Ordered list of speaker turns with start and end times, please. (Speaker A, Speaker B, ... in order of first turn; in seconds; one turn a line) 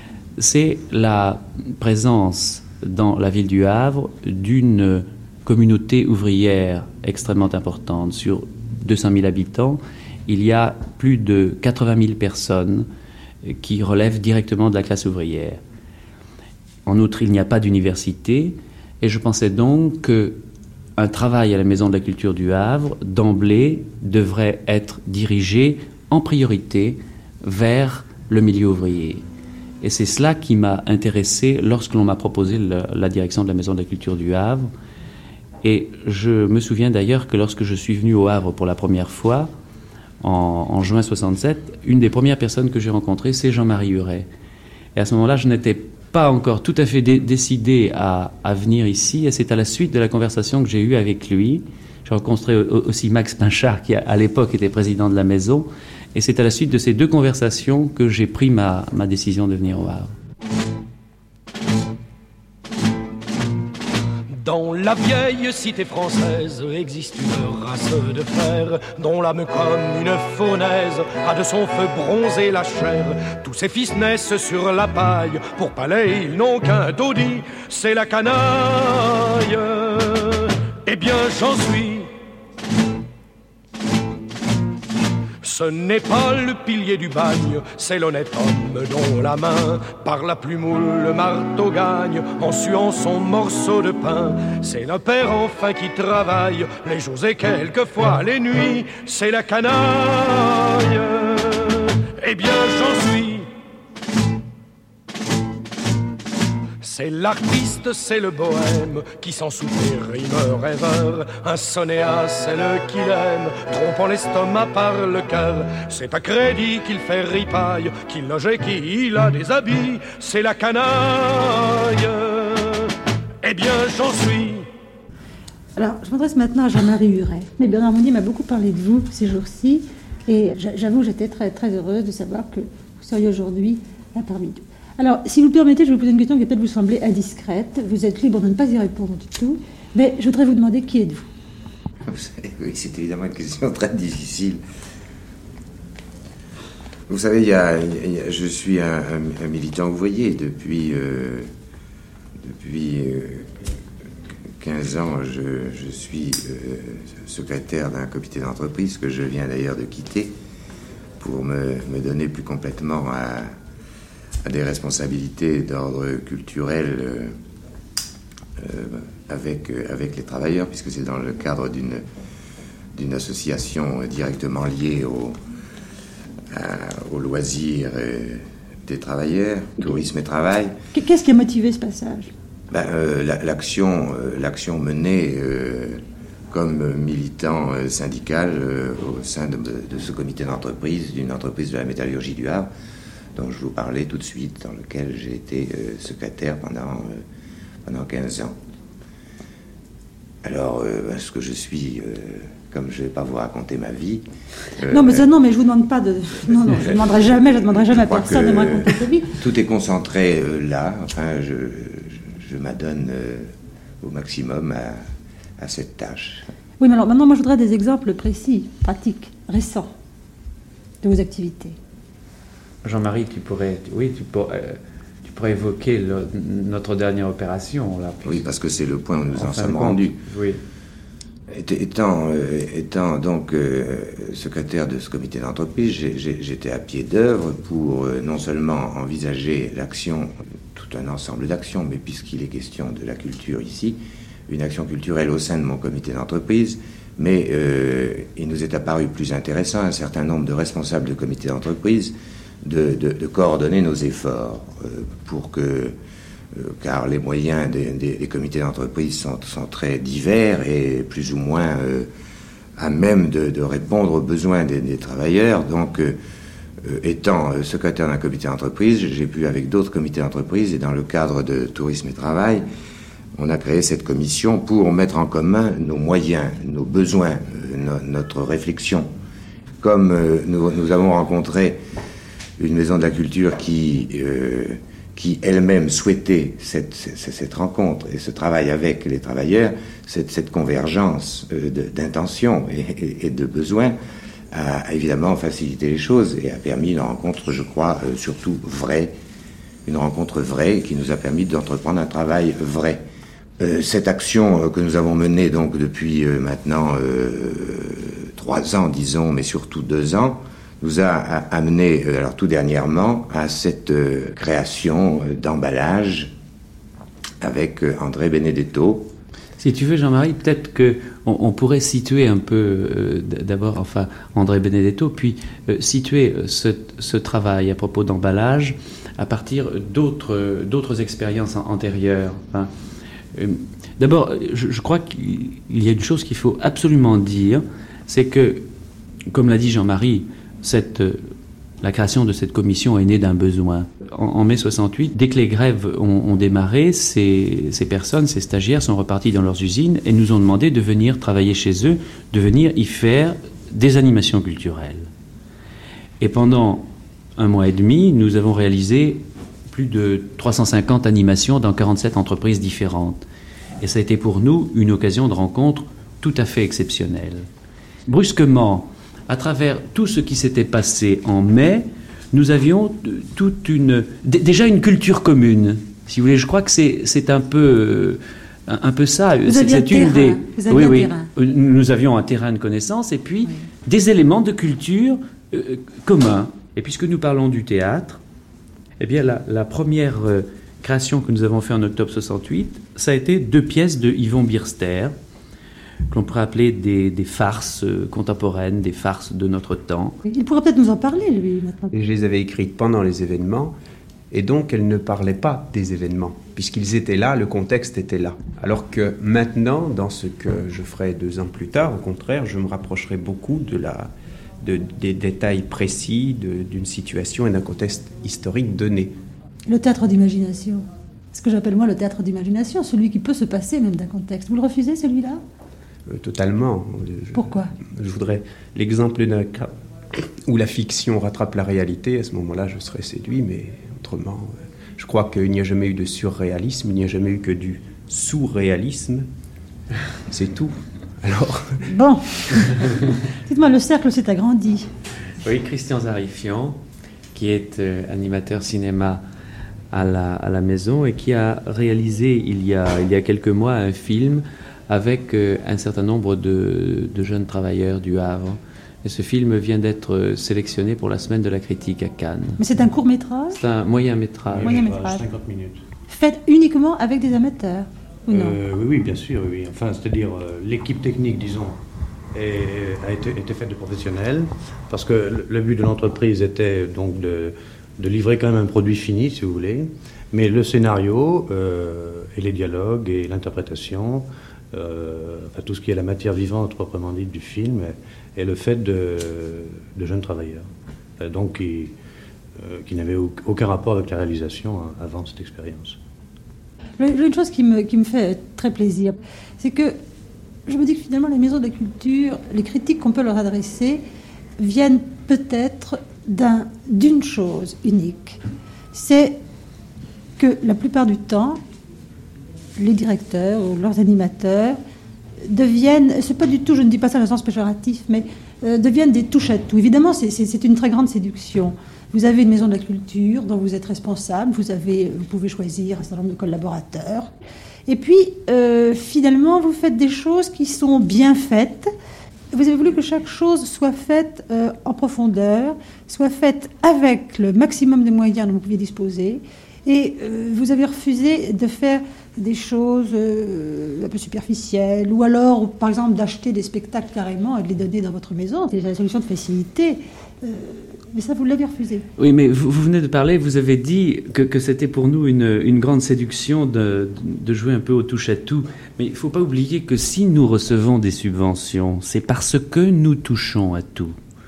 Speaker A: 0.4-12.9
Speaker A: 13.4-15.6
Speaker A: 16.9-20.4
Speaker A: 21.0-29.2
Speaker A: 29.8-34.7
Speaker A: 35.6-39.5
Speaker A: 40.2-44.3
Speaker A: 45.0-60.1
Speaker B: 64.3-82.1
Speaker B: 85.4-103.5
Speaker B: 106.8-124.7
Speaker C: 125.8-141.3
Speaker D: 142.1-144.6
Speaker D: 147.1-151.5
Speaker D: 152.4-153.5
Speaker D: 154.6-160.3
Speaker D: 161.2-163.5
Speaker D: 164.4-167.3
Speaker D: 168.6-172.0
Speaker D: 172.9-175.3
Speaker D: 176.5-180.7
Speaker C: 180.9-182.3
Speaker D: 182.7-192.7
Speaker D: 193.3-197.2
Speaker D: 197.8-198.6
Speaker D: 200.4-204.2
Speaker D: 204.8-205.2
Speaker C: 204.9-209.3
Speaker D: 206.7-215.0
Speaker D: 215.6-216.5
Speaker C: 216.8-219.9
Speaker C: 221.0-221.8
Speaker A: 222.8-228.4
Speaker D: 228.2-230.2
Speaker A: 229.3-230.6
Speaker D: 231.5-255.9
Speaker D: 256.5-262.1
Speaker D: 262.8-266.2
Speaker D: 266.8-272.6
Speaker D: 273.4-279.1
Speaker D: 279.8-281.8
Speaker D: 282.6-293.9
Speaker D: 294.5-299.1
Speaker D: 299.9-303.0
Speaker D: 303.6-316.3
Speaker D: 317.4-319.1
Speaker A: 319.6-332.7
Speaker A: 333.3-338.6
Speaker A: 339.3-341.2
Speaker A: 341.8-355.1
Speaker A: 356.2-363.2
Speaker A: 363.8-367.5
Speaker A: 368.1-388.2
Speaker C: 379.4-381.3
Speaker A: 389.0-395.1
Speaker A: 396.1-400.2
Speaker C: 400.2-401.9
Speaker E: 401.9-403.7
Speaker E: 404.3-419.1
Speaker C: 419.7-425.4
Speaker E: 426.1-429.7
Speaker C: 427.3-427.7
Speaker E: 430.4-439.3
Speaker E: 440.3-441.9
Speaker C: 441.9-442.9
Speaker C: 443.4-444.9
Speaker A: 445.4-446.8
Speaker A: 447.3-449.2
Speaker A: 449.9-462.6
Speaker C: 462.6-463.6
Speaker A: 463.5-464.8
Speaker F: 464.5-465.8
Speaker C: 464.6-465.2
Speaker C: 466.1-468.6
Speaker F: 468.3-471.8
Speaker F: 472.3-490.7
Speaker F: 491.2-491.9
Speaker F: 492.6-496.0
Speaker C: 497.0-499.9
Speaker C: 500.7-504.0
Speaker C: 504.6-508.4
Speaker C: 508.9-509.4
Speaker C: 510.4-511.6
Speaker C: 512.8-514.8
Speaker C: 515.4-527.3
Speaker C: 527.9-531.9
Speaker C: 532.5-552.1
Speaker A: 552.2-564.1